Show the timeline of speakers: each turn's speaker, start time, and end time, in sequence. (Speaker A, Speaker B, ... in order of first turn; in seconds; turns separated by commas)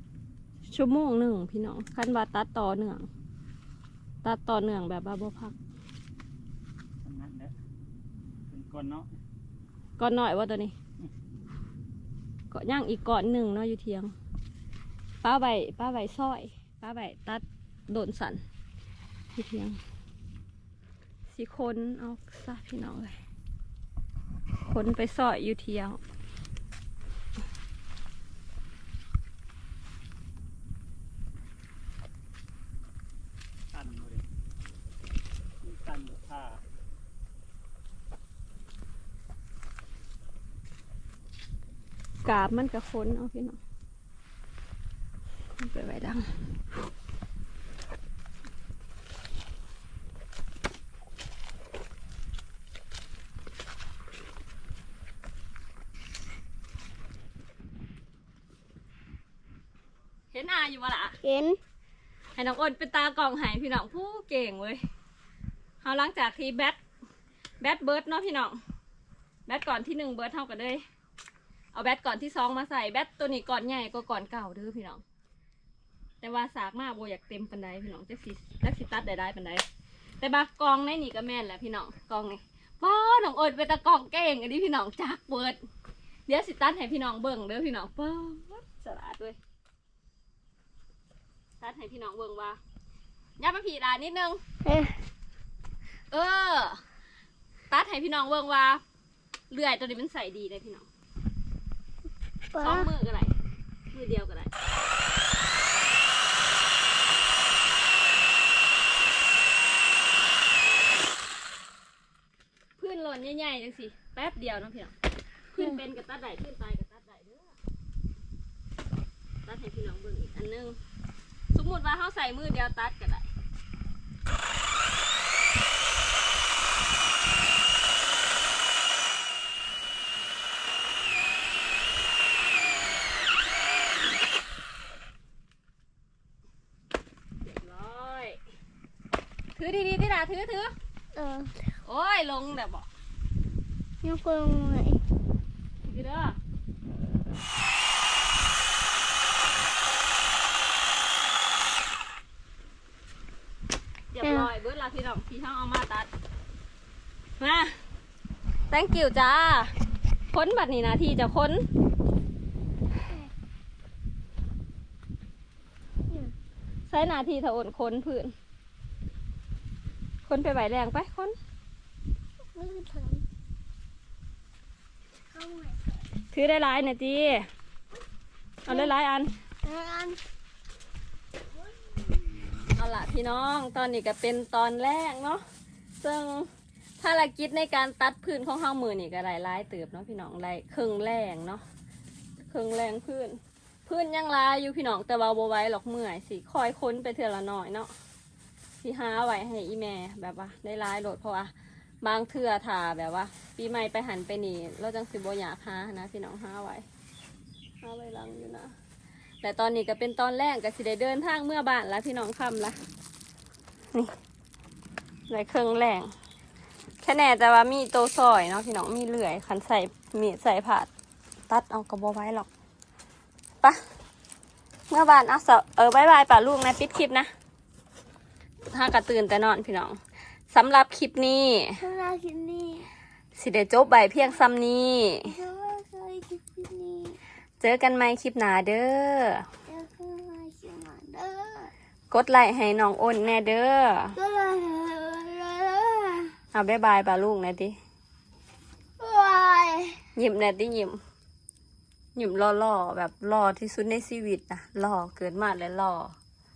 Speaker A: 0.7-3.1, Speaker A: 4.2-5.6, Speaker B: 7.0-7.5, Speaker B: 8.5-9.1, Speaker A: 10.0-10.8, Speaker A: 12.5-14.1, Speaker A: 15.2-18.4, Speaker A: 19.4-19.8, Speaker A: 21.3-23.2, Speaker A: 24.6-26.0, Speaker B: 33.7-34.2, Speaker B: 35.6-36.6, Speaker A: 42.2-43.6, Speaker A: 45.6-46.3, Speaker A: 60.3-61.2, Speaker C: 61.2-61.6, Speaker A: 62.4-64.8, Speaker A: 65.8-66.8, Speaker A: 67.6-68.6, Speaker A: 69.5-70.8, Speaker A: 71.7-75.0, Speaker A: 76.2-79.7, Speaker A: 80.2-85.6, Speaker A: 86.3-89.4, Speaker A: 91.6-92.6, Speaker A: 93.4-94.4, Speaker C: 94.6-95.0, Speaker A: 96.1-96.8, Speaker A: 97.7-98.8, Speaker A: 99.5-100.9, Speaker C: 102.5-102.9, Speaker A: 102.6-103.3, Speaker A: 103.9-104.5, Speaker A: 112.8-115.0, Speaker A: 115.5-117.5, Speaker A: 119.5-120.8, Speaker A: 121.5-123.3, Speaker A: 137.4-138.4, Speaker A: 139.6-140.7, Speaker C: 141.2-141.7, Speaker A: 141.8-142.9, Speaker C: 144.0-145.0, Speaker A: 145.8-146.4, Speaker A: 154.1-156.1, Speaker C: 154.2-154.5, Speaker A: 157.4-157.8, Speaker A: 158.7-159.8, Speaker A: 160.3-161.7, Speaker A: 166.9-168.3, Speaker A: 170.2-171.3, Speaker C: 172.4-173.2, Speaker C: 175.3-176.0, Speaker A: 176.3-177.5, Speaker A: 178.7-179.3, Speaker C: 179.6-180.2, Speaker C: 181.7-182.6, Speaker A: 182.7-185.4, Speaker A: 186.0-191.6, Speaker A: 192.4-197.9, Speaker A: 198.8-206.9, Speaker A: 207.8-208.7, Speaker A: 209.4-212.8, Speaker A: 215.3-216.1, Speaker A: 217.0-220.9, Speaker A: 221.5-222.5, Speaker A: 224.9-227.3, Speaker A: 228.7-230.0, Speaker A: 230.5-231.8, Speaker C: 231.8-232.9, Speaker A: 233.3-235.3, Speaker C: 235.3-237.2, Speaker A: 237.6-239.5, Speaker C: 239.7-241.7, Speaker A: 242.1-244.2, Speaker C: 244.2-246.3, Speaker A: 246.5-247.8, Speaker C: 249.0-250.0, Speaker A: 250.2-251.0, Speaker A: 252.2-256.2